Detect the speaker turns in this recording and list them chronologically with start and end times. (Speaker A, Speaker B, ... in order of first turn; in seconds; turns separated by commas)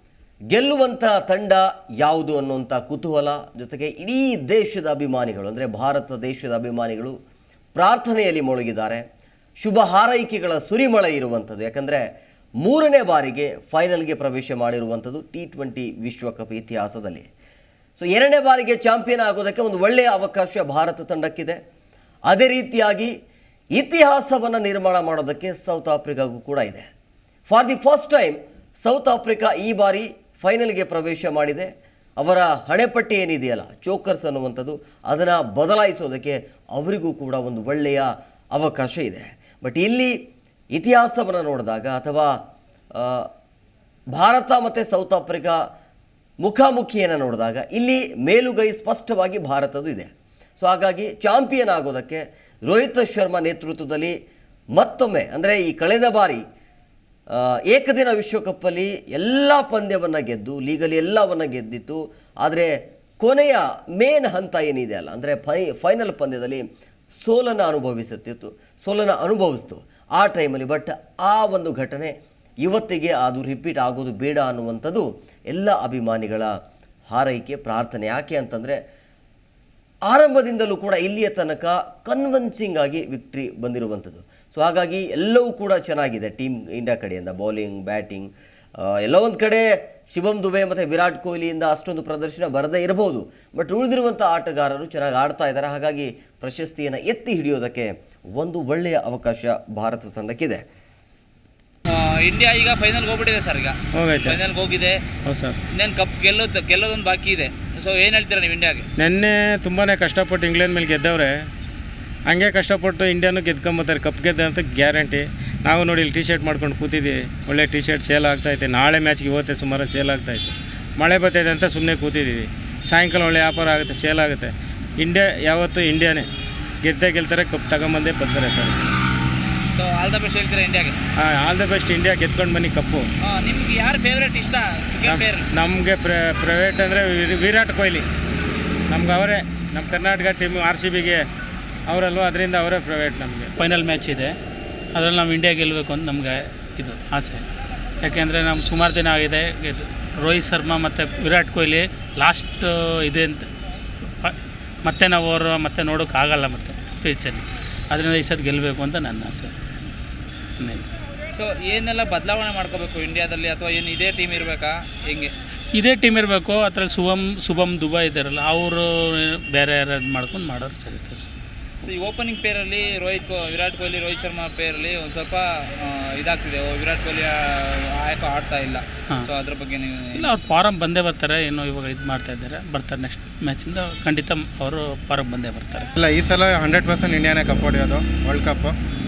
Speaker A: 0.5-7.1, Speaker A: 7.8-9.0, Speaker A: 9.6-12.0, Speaker A: 12.6-17.3, Speaker A: 18.0-21.6, Speaker A: 22.3-23.1, Speaker A: 23.7-26.8, Speaker A: 27.5-40.1, Speaker A: 40.7-42.3, Speaker A: 43.0-43.3, Speaker A: 44.1-45.6, Speaker A: 46.4-54.1, Speaker A: 54.8-56.4, Speaker A: 57.3-66.6, Speaker A: 67.2-76.5, Speaker A: 77.1-78.8, Speaker A: 80.1-88.3, Speaker A: 88.8-100.6, Speaker B: 101.9-105.0, Speaker C: 103.9-104.4, Speaker C: 105.2-105.6, Speaker B: 105.8-108.8, Speaker C: 109.0-111.5, Speaker C: 112.2-126.3, Speaker C: 126.8-128.8, Speaker B: 129.7-131.0, Speaker C: 131.2-133.1, Speaker B: 133.2-135.4, Speaker C: 135.0-138.1, Speaker C: 138.9-141.2, Speaker C: 141.9-143.5, Speaker D: 143.6-144.3, Speaker D: 144.9-147.4, Speaker D: 148.0-153.4, Speaker D: 154.2-159.5, Speaker B: 161.3-165.3, Speaker D: 165.8-171.3, Speaker B: 171.8-180.3, Speaker D: 180.2-185.8, Speaker E: 185.9-188.7